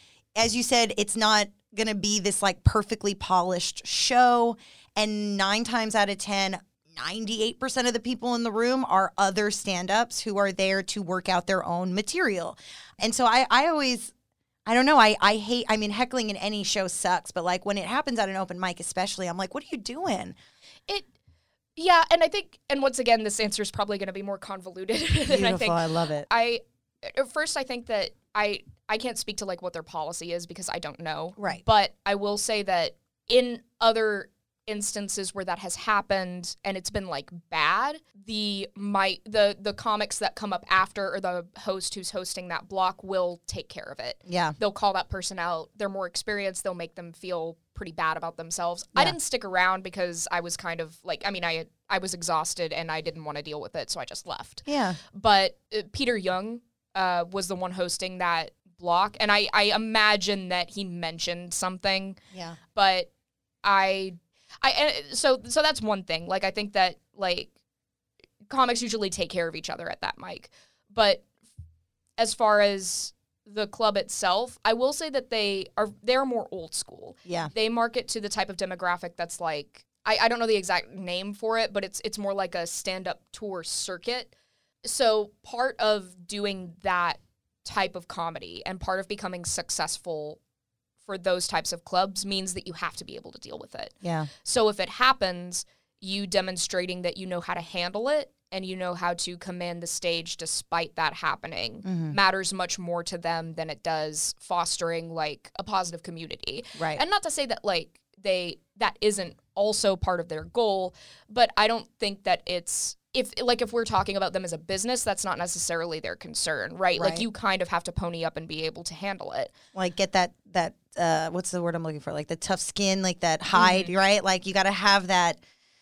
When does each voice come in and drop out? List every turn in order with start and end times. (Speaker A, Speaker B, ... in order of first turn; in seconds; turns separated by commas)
Speaker A: 0.3-14.1, Speaker A: 14.7-20.4, Speaker B: 21.8-62.2, Speaker A: 25.3-26.3, Speaker A: 31.4-31.6, Speaker A: 44.3-44.5, Speaker A: 54.6-55.0, Speaker A: 62.3-62.6, Speaker B: 62.7-63.1, Speaker B: 63.6-67.5, Speaker B: 68.5-71.2, Speaker B: 72.2-84.3, Speaker A: 77.2-77.5, Speaker B: 84.8-90.4, Speaker B: 91.0-119.5, Speaker A: 94.0-94.3, Speaker A: 101.8-102.2, Speaker A: 106.8-107.0, Speaker A: 116.9-117.2, Speaker A: 119.7-125.4, Speaker B: 123.5-123.9